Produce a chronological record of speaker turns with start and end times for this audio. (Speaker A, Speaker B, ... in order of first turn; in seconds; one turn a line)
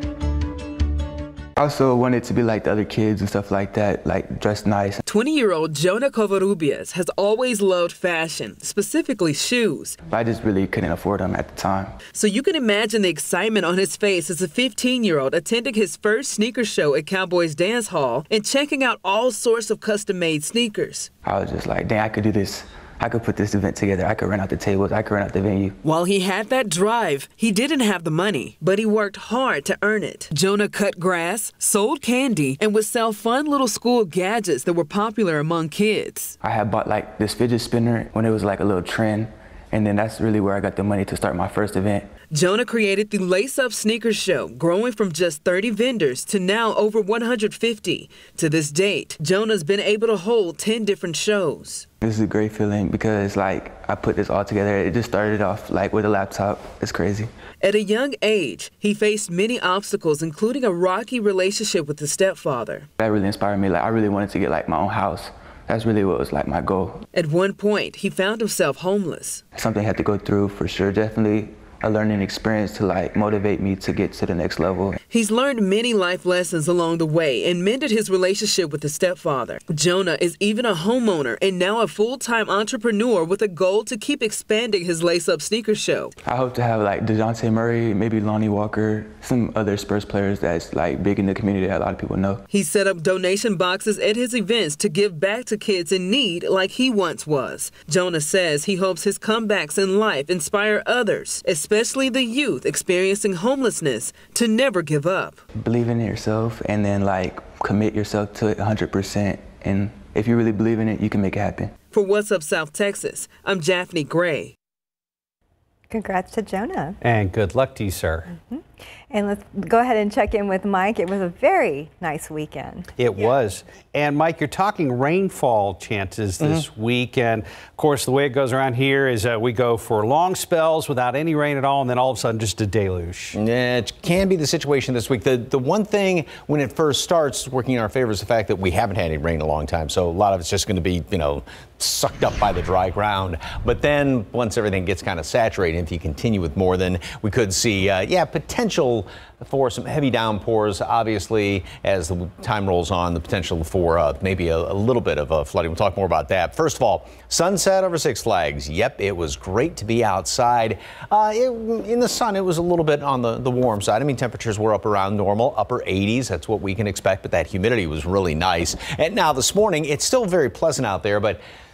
Speaker A: 1.6-5.0
Speaker B: 5.0-10.0
Speaker A: 10.1-11.9
Speaker B: 12.1-21.1
Speaker A: 21.2-25.8
Speaker B: 25.8-36.4
Speaker A: 36.4-42.1
Speaker B: 42.3-51.9
Speaker A: 52.0-57.3
Speaker B: 57.6-62.9
Speaker A: 63.0-67.0
Speaker B: 67.1-69.4
Speaker A: 69.5-75.0
Speaker B: 75.1-86.1
Speaker A: 86.2-92.4
Speaker B: 92.5-105.4
Speaker A: 105.5-111.7
Speaker B: 111.9-114.5
Speaker C: 115.9-117.0
Speaker D: 117.0-118.3
Speaker C: 118.5-122.9
Speaker D: 123.0-133.4
Speaker E: 133.3-171.4